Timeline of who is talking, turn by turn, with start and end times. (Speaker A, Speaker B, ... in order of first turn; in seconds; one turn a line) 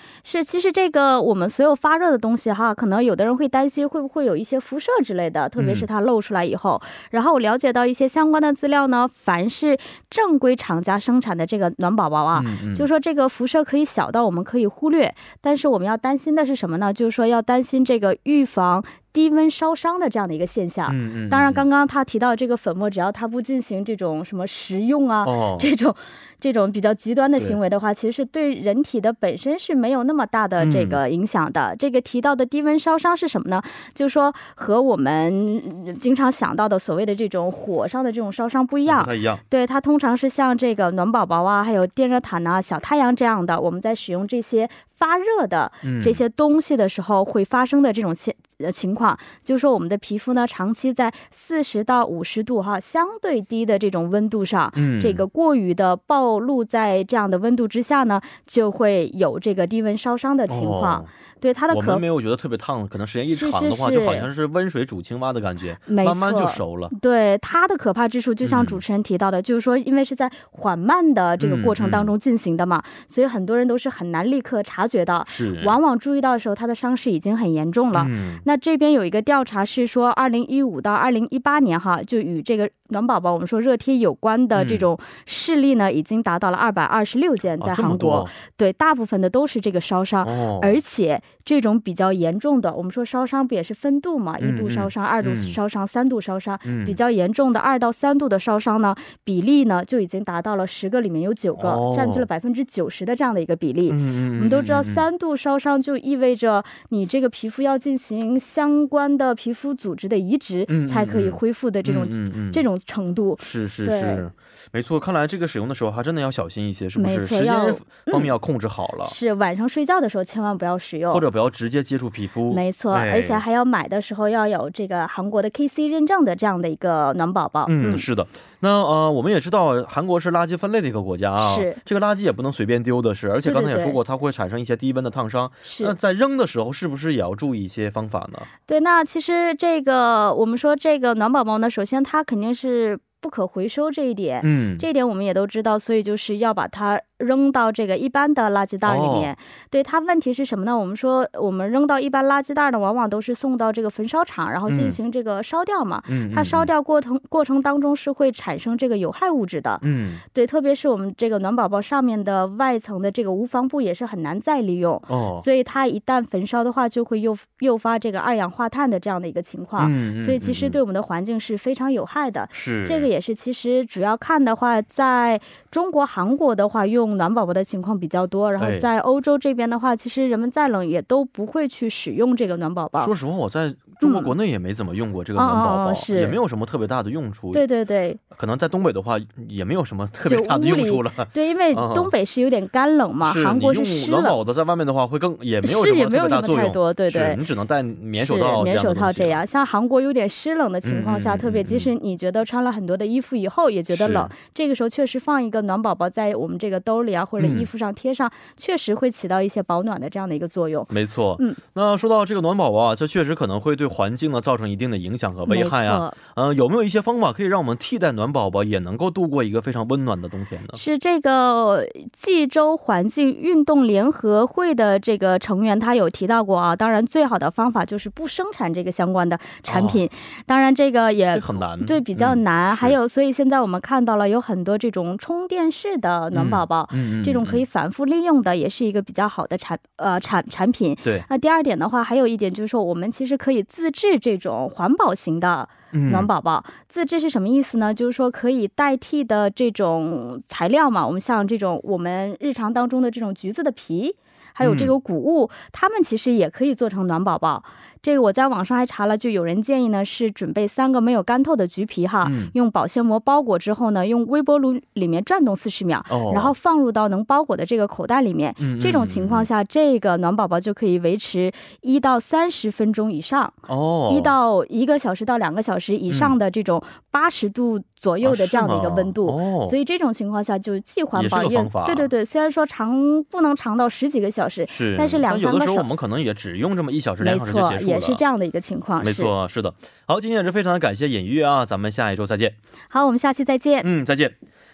Speaker A: 0.2-62.0
Speaker B: 5.6-5.9
Speaker B: 12.3-12.9
Speaker B: 20.9-21.6
Speaker B: 25.2-25.7
Speaker B: 30.6-31.0
Speaker B: 38.9-39.4
Speaker B: 45.8-46.2
Speaker B: 54.7-55.2
Speaker B: 60.5-61.1
Speaker B: 61.7-66.9
Speaker A: 63.3-64.3
Speaker A: 65.9-114.2
Speaker B: 68.4-68.8
Speaker B: 71.4-72.1
Speaker B: 75.2-75.8
Speaker B: 77.9-78.4
Speaker B: 84.5-84.9
Speaker B: 87.6-88.3
Speaker B: 90.2-90.8
Speaker B: 94.4-95.6
Speaker B: 96.6-97.0
Speaker B: 101.5-102.3
Speaker B: 103.9-105.0
Speaker B: 110.7-112.6
Speaker B: 113.4-119.1
Speaker A: 117.0-118.3
Speaker A: 119.0-121.2
Speaker B: 121.1-123.4
Speaker A: 122.5-128.1
Speaker B: 127.7-138.5
Speaker A: 131.4-131.8
Speaker A: 133.4-134.0
Speaker A: 135.6-135.9
Speaker A: 138.7-183.1
Speaker B: 144.4-144.8
Speaker B: 148.8-149.3
Speaker B: 154.7-155.0
Speaker B: 156.1-156.7
Speaker B: 159.8-160.2
Speaker B: 165.1-165.4
Speaker B: 169.8-170.8
Speaker B: 172.5-173.1
Speaker B: 178.6-178.9
Speaker B: 183.0-187.6
Speaker A: 184.0-184.3
Speaker A: 185.3-186.4
Speaker A: 187.5-188.2
Speaker B: 188.3-192.1
Speaker A: 190.2-194.3
Speaker B: 193.2-199.4
Speaker A: 195.6-197.4
Speaker A: 198.1-211.6
Speaker B: 200.8-201.9
Speaker B: 203.9-204.3
Speaker B: 207.4-207.7
Speaker B: 210.9-220.8
Speaker A: 215.4-216.2
Speaker A: 220.7-273.6
Speaker B: 229.7-230.0
Speaker B: 231.3-232.9
Speaker B: 236.3-237.6
Speaker B: 245.9-246.3
Speaker B: 254.6-254.9
Speaker B: 262.2-262.5
Speaker B: 266.1-266.5
Speaker B: 268.6-269.5
Speaker B: 273.7-274.3
Speaker A: 274.1-285.9
Speaker B: 276.1-276.4
Speaker B: 278.2-279.7
Speaker B: 281.1-282.1
Speaker B: 284.7-288.2
Speaker A: 287.2-289.3
Speaker B: 289.0-292.5
Speaker A: 292.9-293.9
Speaker B: 293.8-294.3